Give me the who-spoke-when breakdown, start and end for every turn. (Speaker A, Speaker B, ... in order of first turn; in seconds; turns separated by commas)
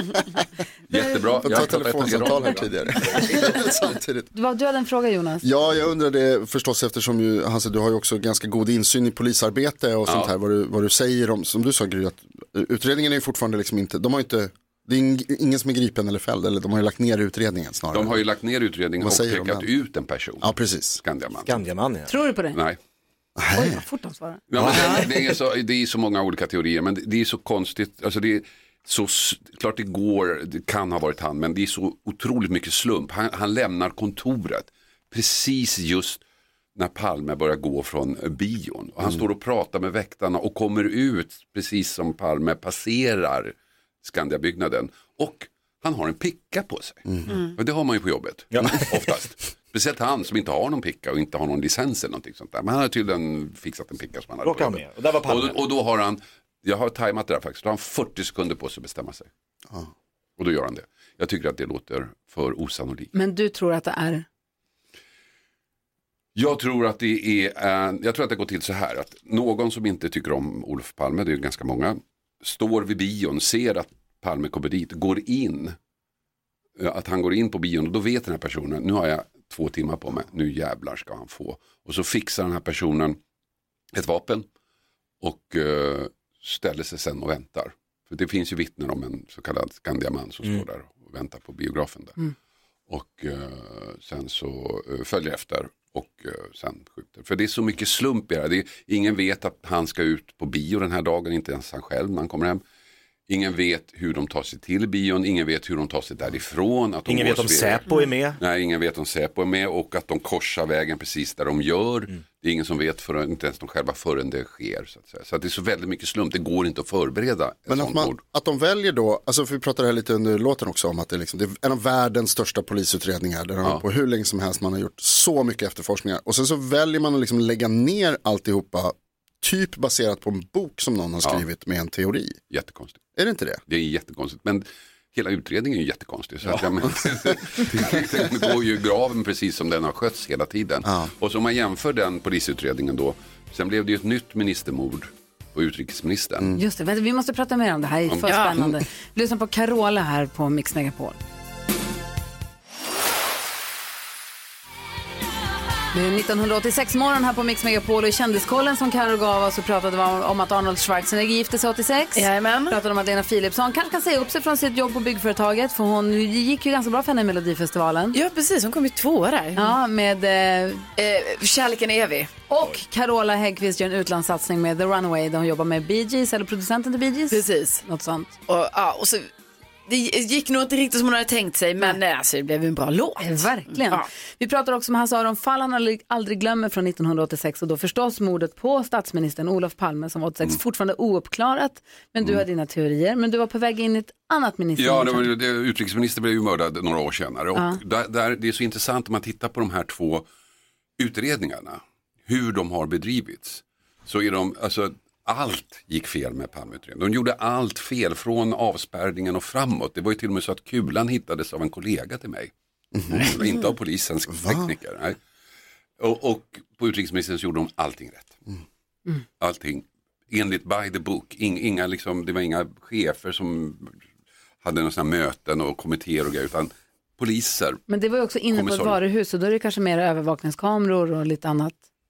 Speaker A: 0.9-3.4, Speaker B: 0.9-1.4, Speaker C: 1.4-4.3, Speaker B: 3.1-3.7, Speaker B: 4.3-5.4, Speaker C: 5.4-18.2, Speaker A: 10.1-10.3, Speaker A: 17.9-21.6, Speaker C: 19.0-19.6, Speaker C: 20.4-21.0, Speaker D: 21.4-22.1, Speaker B: 22.1-22.6, Speaker A: 22.5-22.8, Speaker C: 23.4-23.8, Speaker B: 23.5-24.4, Speaker A: 24.5-36.2, Speaker C: 24.6-24.9, Speaker A: 36.8-59.3, Speaker D: 48.5-48.9, Speaker D: 54.4-55.6, Speaker A: 60.4-63.1, Speaker B: 63.1-64.2, Speaker A: 66.3-75.8, Speaker A: 76.8-83.2, Speaker A: 83.9-84.5, Speaker A: 85.2-92.2, Speaker A: 92.9-102.6, Speaker A: 103.3-118.2, Speaker D: 107.0-108.4, Speaker C: 117.7-132.4, Speaker A: 132.5-133.0, Speaker C: 133.2-133.6, Speaker A: 133.7-146.6, Speaker B: 146.6-151.2, Speaker E: 148.2-148.7, Speaker B: 155.9-168.2, Speaker E: 162.2-162.8, Speaker E: 168.1-169.8, Speaker B: 169.6-170.8, Speaker E: 170.9-172.3, Speaker B: 172.5-178.3, Speaker E: 177.3-177.8, Speaker E: 178.5-179.3, Speaker E: 179.9-184.1, Speaker B: 183.2-195.3, Speaker A: 194.8-200.2, Speaker B: 197.5-197.8, Speaker A: 201.0-212.5, Speaker C: 212.9-213.3, Speaker A: 213.1-215.2, Speaker C: 214.3-214.7, Speaker A: 216.0-218.4, Speaker A: 219.4-224.0, Speaker A: 224.6-227.8, Speaker B: 227.9-231.8, Speaker A: 228.5-229.0